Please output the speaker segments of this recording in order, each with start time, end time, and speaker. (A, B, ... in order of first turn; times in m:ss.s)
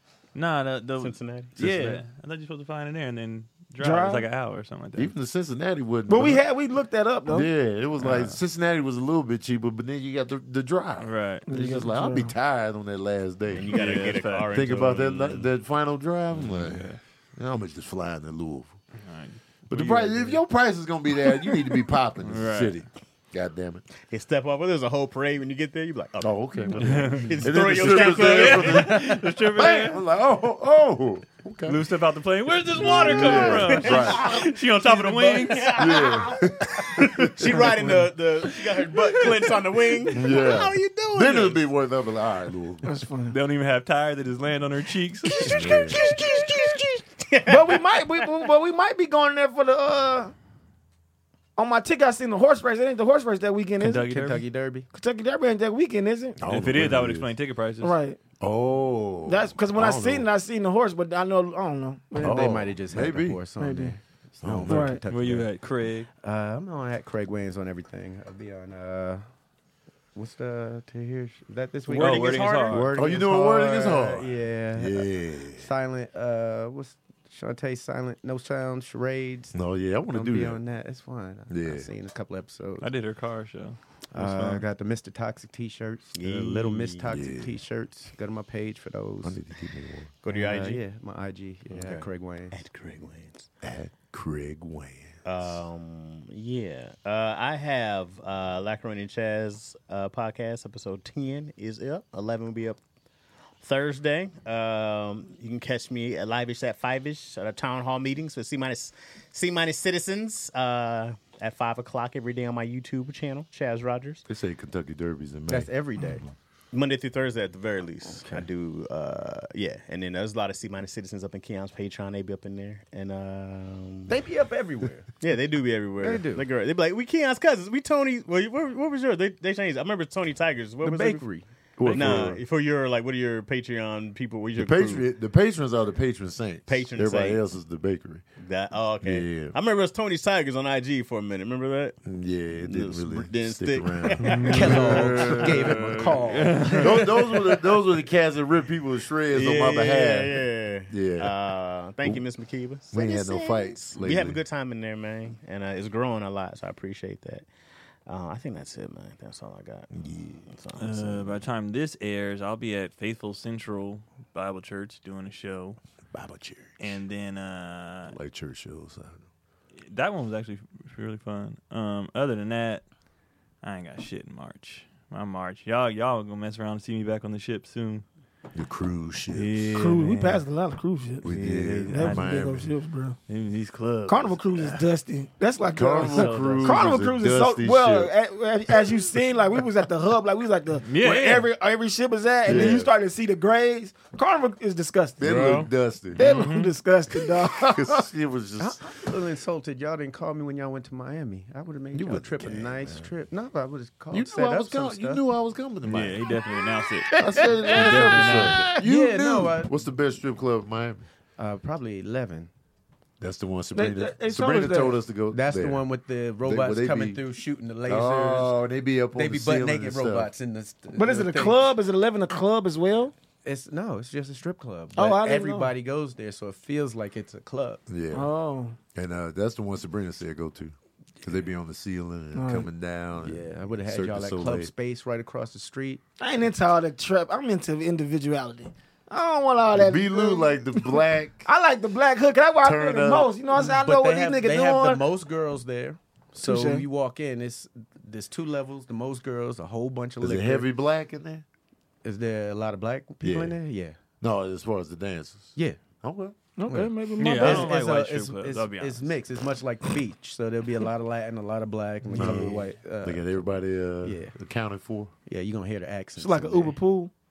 0:00.3-0:05.1 A
0:01.0-0:01.6 B
0:01.6-0:02.0 C
0:03.8-0:04.2 D
0:05.0-0:06.4 C
0:06.1-0:07.5 D
0:07.2-0:13.8 C
0:08.0-0:08.4 A
0:11.0-0:11.4 A
0:11.5-0:12.3 D
0:13.5-0:15.5 B
0:13.7-0:14.6 A
0:14.4-0:18.7 C
0:16.5-0:17.0 A
0:19.0-0:20.4 A
0:19.7-0:23.8 C
0:22.2-0:22.7 A
0:24.1-0:29.0 B
0:26.2-0:31.8 C
0:26.7-0:30.0 A
0:31.6-0:36.1 A
0:32.8-0:34.3 C
0:33.0-0:36.4 B
0:35.7-0:38.0 C
0:37.0-0:41.6 B
0:40.1-0:42.9 C
0:42.8-0:43.4 D
0:43.3-0:45.8 A
0:45.3-0:48.3 B
0:45.5-0:46.0 C
0:47.4-0:50.3 D
0:51.6-0:54.1 D
0:53.8-0:54.4 A
0:54.0-0:54.9 E
0:54.9-0:56.4 D
0:56.4-0:57.3 C
0:56.4-0:57.9 A
0:57.8-0:58.2 D
0:58.4-1:00.2 C
0:59.2-1:02.4 D
1:02.2-1:05.5 E
1:02.2-1:03.4 C
1:03.6-1:03.9 D
1:04.4-1:05.0 C
1:04.7-1:05.0 D
1:05.1-1:06.1 A
1:06.2-1:09.2 E
1:10.1-1:19.6 E
1:11.9-1:13.0 B
1:11.9-1:12.9 A
1:12.9-1:15.7 C
1:19.5-1:20.6 C
1:20.1-1:22.9 E
1:21.5-1:21.9 C
1:22.8-1:24.6 A
1:24.1-1:29.4 E
1:26.2-1:27.0 B
1:27.1-1:27.5 C
1:29.2-1:30.1 C
1:30.2-1:30.8 B
1:30.3-1:32.6 E
1:31.7-1:33.5 B
1:33.6-1:35.2 C
1:35.2-1:42.8 B
1:43.6-1:54.2 B
1:54.3-1:56.3 C
1:55.5-1:56.2 E
1:56.7-2:04.1 B
1:58.1-1:58.4 E
2:04.1-2:05.1 E
2:05.2-2:11.2 B
2:06.0-2:06.4 E
2:10.8-2:11.4 E
2:11.8-2:12.4 C
2:11.8-2:12.3 A
2:11.9-2:15.0 B
2:14.6-2:18.2 C
2:16.7-2:17.4 B
2:18.4-2:22.0 B
2:19.0-2:19.5 C
2:22.0-2:25.4 C
2:22.6-2:24.8 B
2:24.2-2:27.0 A
2:24.4-2:27.0 E
2:26.8-2:31.3 C
2:29.3-2:37.4 B
2:32.9-2:34.4 C
2:38.0-2:39.9 B
2:39.9-2:40.5 C
2:40.5-2:41.3 B
2:40.8-2:45.8 A
2:46.1-2:47.0 C
2:46.8-2:48.2 A
2:48.1-2:49.2 C
2:49.8-2:52.8 A
2:53.6-2:58.0 A
2:58.5-2:59.7 C
2:59.3-3:00.4 A
2:59.7-3:01.3 D
3:01.2-3:02.7 C
3:01.2-3:02.3 A
3:01.9-3:03.2 D
3:03.3-3:04.8 A
3:04.1-3:15.2 D
3:05.7-3:08.1 C
3:06.0-3:06.9 A
3:10.9-3:11.5 A
3:12.4-3:12.9 C
3:15.2-3:16.2 C
3:15.2-3:15.7 B
3:16.1-3:18.0 D
3:16.2-3:16.7 A
3:17.6-3:18.9 C
3:18.6-3:25.2 E
3:21.9-3:23.1 C
3:24.1-3:26.2 C
3:25.8-3:28.7 A
3:27.1-3:31.1 C
3:28.7-3:29.7 E
3:31.4-3:32.5 E
3:33.2-3:35.8 C
3:33.7-3:35.0 D
3:35.3-3:38.5 E
3:36.4-3:37.2 C
3:37.9-3:40.3 C
3:39.1-3:41.6 E
3:40.9-3:43.1 D
3:43.4-3:47.8 E
3:45.0-3:45.7 D
3:47.9-3:48.3 C
3:48.1-3:48.8 D
3:48.9-3:54.7 C
3:52.3-3:52.7 D
3:53.2-3:56.0 E
3:56.2-4:05.0 D
3:59.7-4:01.5 C
4:02.6-4:03.3 C
4:03.5-4:10.7 E
4:06.4-4:06.8 D
4:10.2-4:11.4 C
4:12.0-4:14.0 E
4:13.2-4:13.6 C
4:14.2-4:16.4 C
4:15.6-4:15.8 E
4:16.6-4:17.7 D
4:16.7-4:23.5 E
4:17.2-4:19.1 A
4:22.1-4:25.1 C
4:24.0-4:24.3 E
4:25.2-4:26.8 E
4:26.2-4:27.1 D